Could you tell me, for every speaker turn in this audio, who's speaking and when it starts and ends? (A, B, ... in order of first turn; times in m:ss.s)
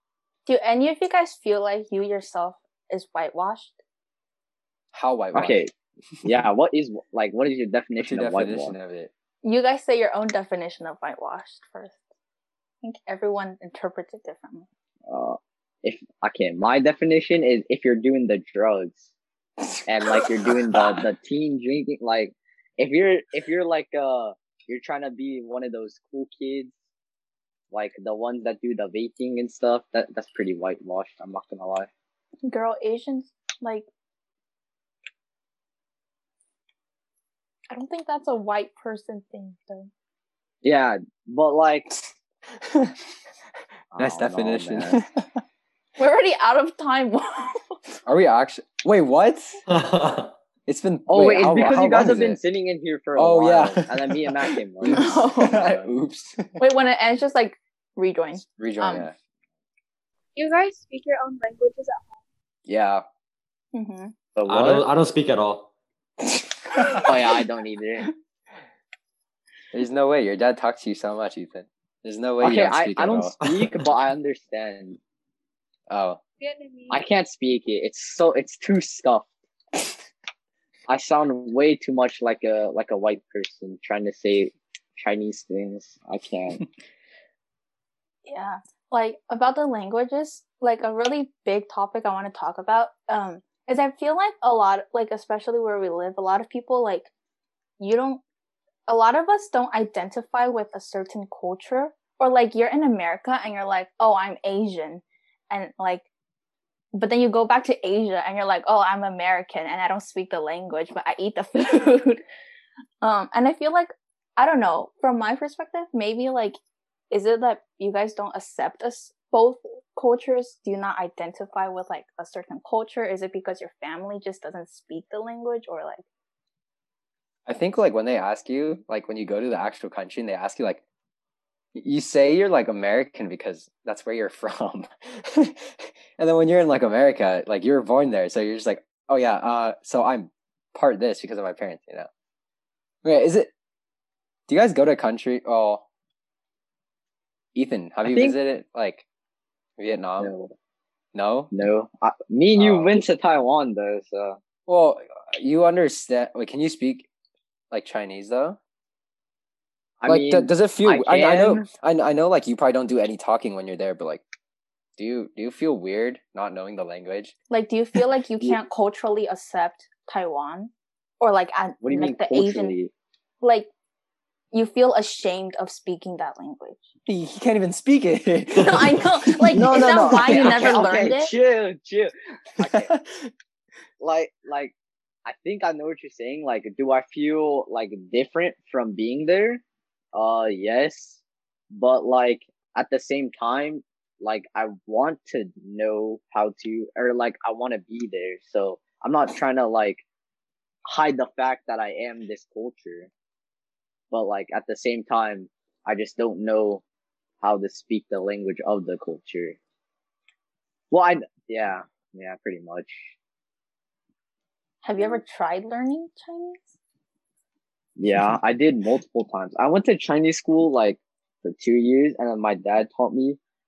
0:00.5-0:03.8 A
0:04.9-0:05.6 B
0:05.3-0:05.7 C
0:06.2-0:08.8 C
0:08.0-0:09.1 B
0:09.4-0:12.0 A
0:12.8-0:14.7 A
0:15.1-0:19.1 C
0:19.9-0:26.7 C
0:20.2-0:20.8 B
0:27.7-0:31.9 C
0:32.4-0:33.9 A
0:37.7-0:39.9 A
0:40.6-0:42.0 C
0:42.6-0:43.0 B
0:43.9-0:45.0 C
0:44.0-0:45.3 B
0:46.0-0:47.7 A
0:48.1-0:49.6 B
0:49.7-0:50.3 D
0:50.7-0:52.4 B
0:51.1-0:55.9 C
0:53.2-0:56.6 B
0:54.9-0:55.6 A
0:56.6-0:59.1 A
0:58.4-0:59.2 B
1:00.4-1:02.2 E
1:02.7-1:03.0 B
1:03.7-1:04.1 A
1:04.4-1:04.9 C
1:04.5-1:05.7 D
1:07.0-1:08.1 C
1:09.7-1:13.3 B
1:12.4-1:15.0 C
1:13.4-1:13.9 D
1:15.9-1:16.2 B
1:16.4-1:17.0 E
1:16.9-1:19.3 C
1:20.9-1:26.6 C
1:28.3-1:37.1 A
1:37.8-1:38.2 A
1:38.9-1:46.1 A
1:46.9-1:52.2 A
1:53.0-1:56.6 A
1:57.1-2:06.0 A
2:07.5-2:10.8 B
2:11.8-2:22.1 B
2:23.0-2:23.5 B
2:24.5-2:25.9 B
2:27.6-2:29.0 B
2:28.0-2:28.4 C
2:29.8-2:30.3 B
2:30.2-2:30.5 C
2:31.1-2:31.5 B
2:31.5-2:34.4 C
2:32.6-2:32.9 B
2:34.7-2:37.1 B
2:37.7-2:38.6 B
2:40.0-2:41.7 C
2:40.1-2:44.3 B
2:45.0-2:47.3 B
2:47.5-2:52.8 A
2:51.8-2:52.9 C
2:53.4-2:53.7 A
2:54.5-2:56.8 A
2:57.1-3:00.9 B
2:58.6-3:01.3 A
2:59.5-3:02.9 C
3:02.6-3:03.3 B
3:04.0-3:04.7 C
3:05.2-3:09.6 C
3:10.1-3:11.2 C
3:11.7-3:20.0 C
3:20.9-3:23.1 C
3:24.1-3:26.8 C
3:27.4-3:29.6 C
3:30.9-3:33.1 C
3:34.8-3:36.7 A
3:38.0-3:43.4 C